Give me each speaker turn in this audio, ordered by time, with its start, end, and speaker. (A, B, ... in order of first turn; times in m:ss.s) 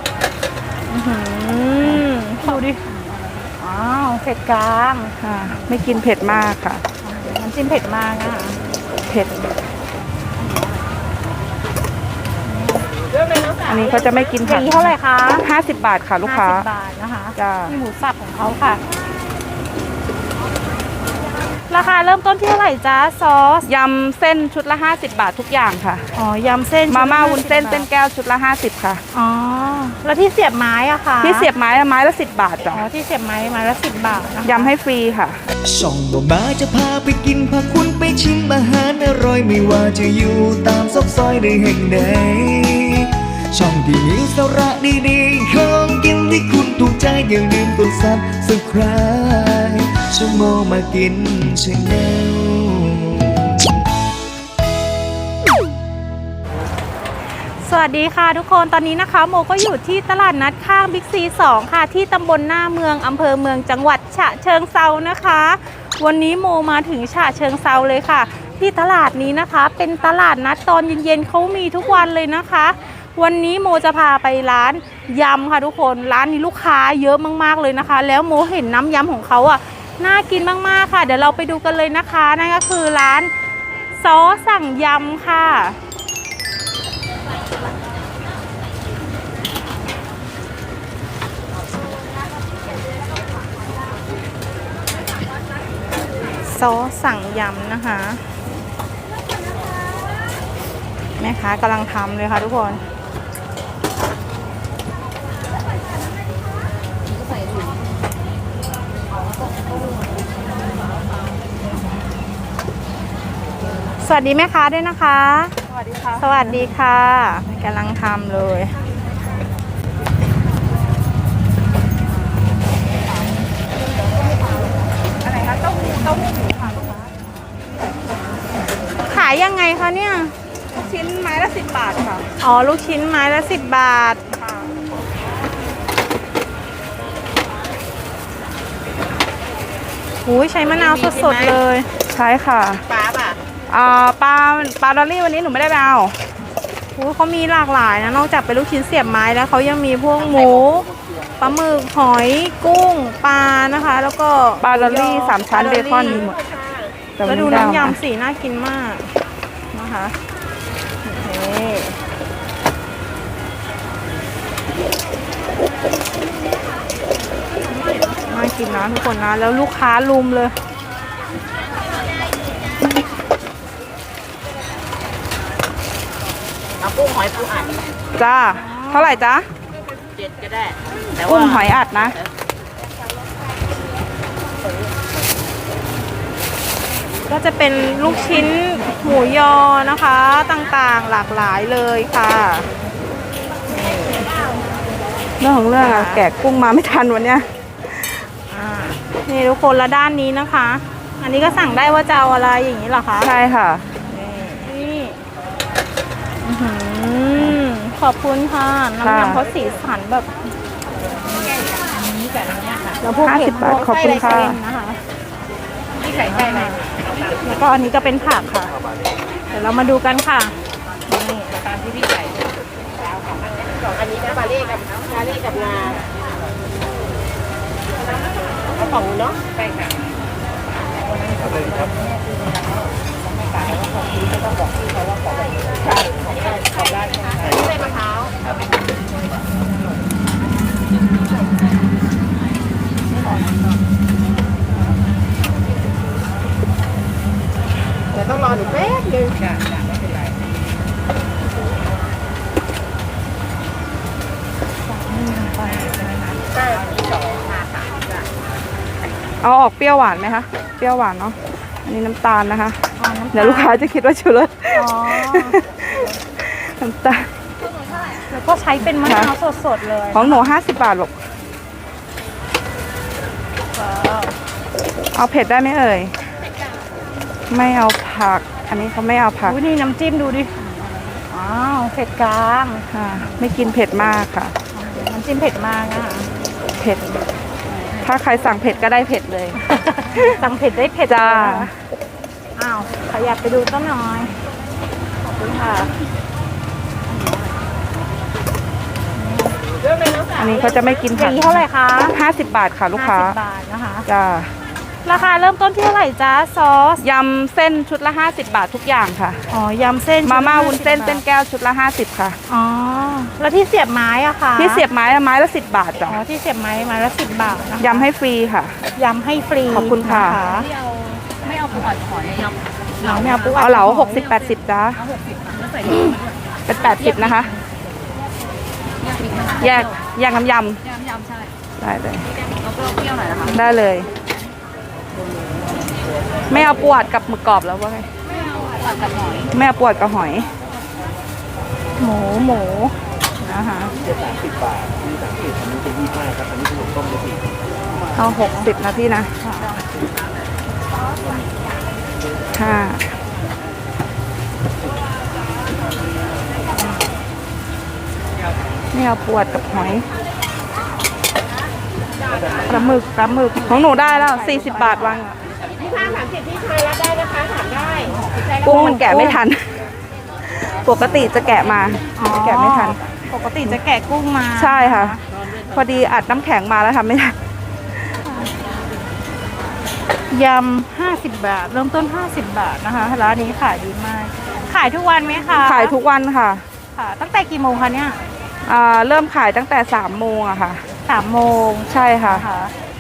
0:00.9-0:02.8 A
0:02.9-0:03.4 B
0:03.6-0:05.6 A
0:05.2-0:06.8 C
0:07.0-0:08.6 A
0:09.0-0:09.6 C
0:10.4-0:10.8 B
0:12.5-0:12.9 A
0:13.6-0:16.7 C
0:14.4-0:15.5 A
0:16.2-0:18.8 A
0:17.4-0:17.7 C
0:21.7-0:23.7 A
0:23.6-0:26.0 C
0:26.1-0:27.9 A
0:26.9-0:29.0 C
0:29.1-0:31.5 A
0:31.2-0:32.8 C
0:32.7-0:34.7 A
0:34.4-0:35.4 C
0:35.6-0:53.6 D
0:57.6-1:23.3 A
1:23.9-1:25.8 A
1:36.4-1:38.3 A
1:41.2-1:42.8 A
1:54.0-1:55.6 A
1:55.9-1:56.2 C
1:56.2-1:58.7 A
2:05.3-2:06.2 C
2:09.0-2:10.3 A
2:10.7-2:12.2 C
2:12.4-2:14.2 A
2:20.2-2:21.9 A
2:22.1-2:23.0 C
2:23.7-2:26.2 C
2:27.0-2:36.3 A
2:34.6-2:36.5 C
2:37.2-2:38.0 C
2:37.2-2:39.1 A
2:39.7-2:40.2 A
2:41.0-2:42.0 A
2:48.2-2:50.5 A
2:57.0-2:57.6 B
2:58.2-2:59.5 C
2:58.5-2:59.2 A
3:01.2-3:02.2 C
3:07.3-3:12.7 A
3:13.7-3:14.3 A
3:15.4-3:17.5 C
3:15.8-3:16.2 A
3:18.5-3:23.3 A
3:23.2-3:23.8 C
3:24.1-3:25.2 A
3:26.4-3:30.3 A
3:29.0-3:29.4 C
3:32.0-3:35.0 A
3:33.2-3:34.6 C
3:36.0-3:38.7 A
3:39.5-3:40.5 A
3:41.1-3:41.5 A
3:44.2-3:45.9 B
4:14.8-4:16.5 A
4:16.7-4:17.4 B
4:19.4-4:27.3 C
4:23.0-4:23.9 A
4:24.7-4:25.6 A
4:28.1-4:30.6 A
4:29.0-4:29.3 C
4:30.1-4:31.2 C
4:33.8-4:34.4 A
4:35.1-4:36.1 C
4:37.5-4:39.6 C
4:39.4-4:40.5 A
4:41.3-4:43.3 A
4:42.9-4:44.6 C
4:44.7-4:46.3 A
4:46.8-4:47.2 C
4:47.7-4:48.0 B
4:48.0-4:49.6 C
4:49.6-4:51.7 A
4:51.1-4:51.7 C
4:52.6-4:54.3 A
4:55.4-4:55.9 A
4:57.1-4:57.6 B
4:59.2-4:59.6 A
5:00.3-5:01.6 C
5:01.1-5:02.2 A
5:02.1-5:03.4 C
5:02.9-5:04.1 A
5:04.1-5:04.6 C
5:05.0-5:07.0 A
5:07.0-5:09.4 C
5:09.5-5:11.2 A
5:10.2-5:12.4 C
5:12.5-5:14.8 A
5:14.6-5:16.2 C
5:16.1-5:18.1 A
5:17.8-5:18.8 C
5:19.0-5:20.7 A
5:19.7-5:20.4 C
5:20.5-5:22.6 B
5:23.0-5:24.3 A
5:23.5-5:25.0 C
5:25.0-5:26.4 B
5:26.7-5:27.5 C
5:27.0-5:27.4 B
5:29.0-5:29.9 B
5:29.6-5:30.8 C
5:30.9-5:31.5 B
5:31.8-5:32.3 C
5:32.6-5:33.6 B
5:33.5-5:34.1 C
5:36.5-5:38.1 C
5:38.6-5:39.5 B
5:39.5-5:40.5 C
5:42.0-5:43.9 A
5:45.7-5:47.3 B
5:48.2-5:49.3 C
5:49.4-5:49.8 A
5:52.5-5:53.1 C
5:58.9-6:00.1 C
6:02.7-6:05.4 C
6:03.5-6:04.0 A
6:05.9-6:06.8 B
6:07.4-6:08.5 B
6:08.5-6:09.8 C
6:08.6-6:09.4 A
6:10.5-6:13.0 C
6:12.2-6:15.2 A
6:14.6-6:17.4 C
6:18.2-6:18.5 A
6:20.3-6:26.0 A
6:25.6-6:26.6 C
6:27.0-6:28.2 A
6:28.6-6:30.8 C
6:31.0-6:32.7 A
6:31.9-6:32.5 C